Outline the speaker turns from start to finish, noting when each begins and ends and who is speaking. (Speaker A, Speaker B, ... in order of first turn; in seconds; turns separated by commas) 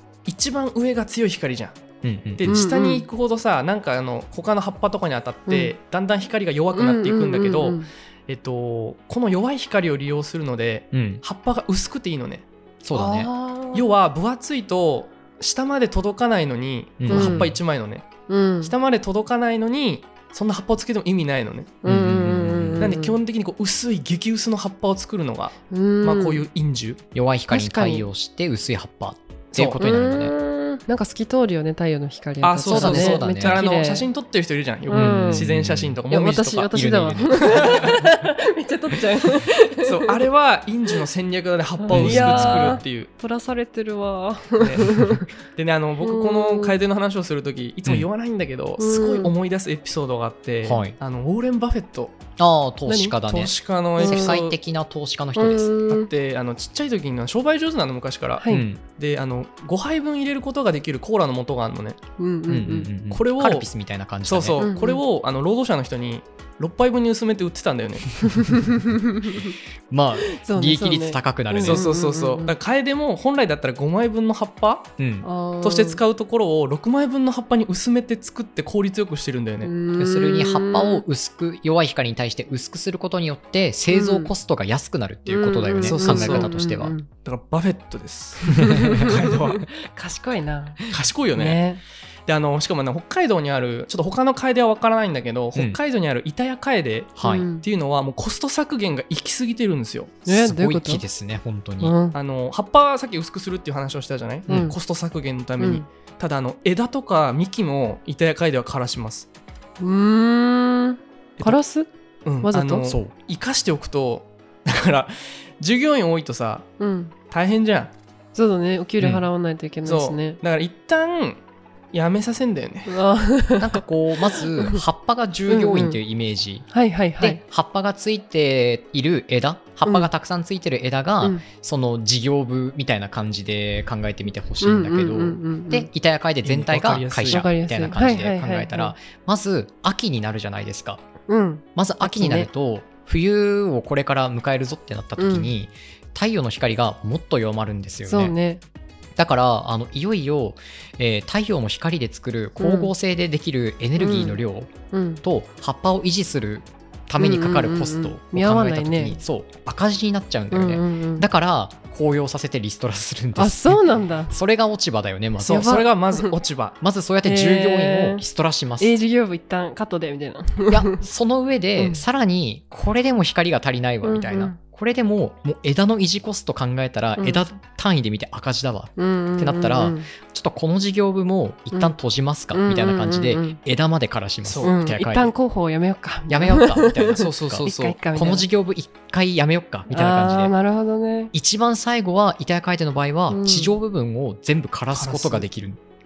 Speaker A: 0.2-1.8, Speaker B: 2.0-2.5, Speaker A: 2.4-12.4, Speaker C: 2.4-3.0, Speaker C: 5.5-5.7, Speaker C: 6.7-7.9, Speaker B: 10.9-11.2, Speaker B: 12.8-13.3, Speaker C: 12.9-13.9, Speaker A: 13.7-18.1, Speaker B: 17.0-17.6, Speaker C: 17.1-17.5, Speaker C: 18.3-18.7, Speaker A: 18.6-21.8, Speaker C: 21.8-23.2, Speaker B: 21.8-23.0, Speaker A: 22.8-27.0, Speaker C: 25.7-26.4, Speaker B: 27.1-30.3, Speaker C: 27.5-28.1, Speaker A: 29.5-29.8, Speaker C: 29.8-34.1, Speaker A: 32.4-36.7, Speaker B: 32.6-33.6, Speaker C: 34.9-35.5, Speaker B: 34.9-36.0, Speaker C: 36.1-40.2, Speaker B: 36.7-38.0, Speaker A: 37.3-38.0, Speaker A: 39.8-43.1, Speaker C: 41.8-45.2, Speaker B: 41.9-42.8, Speaker A: 44.6-52.2, Speaker C: 46.0-46.8, Speaker C: 48.8-49.3, Speaker B: 50.6-50.9, Speaker B: 52.4-55.7, Speaker C: 52.9-53.1, Speaker A: 53.2-54.6, Speaker C: 54.0-54.4, Speaker C: 55.4-56.1, Speaker A: 55.9-62.0, Speaker C: 58.4-58.7, Speaker B: 58.5-58.8, Speaker C: 62.2-62.9, Speaker B: 62.5-64.6, Speaker A: 63.1-63.7, Speaker A: 64.2-68.2, Speaker C: 64.6-65.0, Speaker C: 68.3-69.5, Speaker B: 69.9-71.9, Speaker C: 70.2-72.5, Speaker A: 71.6-74.9, Speaker B: 75.0-75.3, Speaker C: 75.2-76.0, Speaker A: 75.6-79.7, Speaker C: 79.6-81.0, Speaker B: 80.0-86.9, Speaker C: 83.9-84.3, Speaker C: 85.3-87.1, Speaker A: 85.8-86.5, Speaker A: 87.2-89.7, Speaker C: 88.4-91.8, Speaker B: 88.5-89.0, Speaker A: 90.9-91.6, Speaker A: 92.3-100.2, Speaker B: 97.2-97.5, Speaker C: 97.2-97.6, Speaker C: 100.2-101.0, Speaker B: 100.2-101.9, Speaker C: 101.8-102.2, Speaker A: 102.1-109.3, Speaker C: 104.5-104.7, Speaker B: 104.5-104.7, Speaker C: 105.6-105.8, Speaker C: 109.8-111.9, Speaker A: 112.2-116.7, Speaker C: 112.4-113.0, Speaker C: 116.8-117.1, Speaker A: 117.3-117.9, Speaker C: 118.3-120.4, Speaker A: 119.8-121.4, Speaker A: 121.9-123.0, Speaker C: 122.9-124.8, Speaker B: 123.6-126.7, Speaker C: 125.5-126.0, Speaker C: 126.7-127.4, Speaker B: 127.2-141.0, Speaker C: 129.8-130.1, Speaker C: 134.6-135.9, Speaker A: 136.4-137.4, Speaker C: 137.2-138.9, Speaker C: 141.3-142.5, Speaker B: 141.8-148.3, Speaker C: 145.2-145.5, Speaker C: 148.1-148.6, Speaker B: 149.2-165.8, Speaker C: 152.6-152.9, Speaker C: 154.0-155.2, Speaker C: 157.2-159.2, Speaker C: 160.5-161.2, Speaker C: 163.3-164.3, Speaker A: 165.4-166.8, Speaker C: 165.4-166.3, Speaker B: 166.8-168.9, Speaker C: 167.2-168.2, Speaker C: 168.8-171.0, Speaker B: 170.7-185.3, Speaker C: 174.0-174.6, Speaker C: 177.2-177.4, Speaker C: 179.0-180.1, Speaker C: 182.5-183.6, Speaker A: 184.4-184.7, Speaker C: 184.6-188.4, Speaker B: 186.3-190.5, Speaker A: 187.2-188.0, Speaker C: 189.9-191.3, Speaker B: 191.3-195.8, Speaker C: 193.3-193.8, Speaker A: 194.9-195.4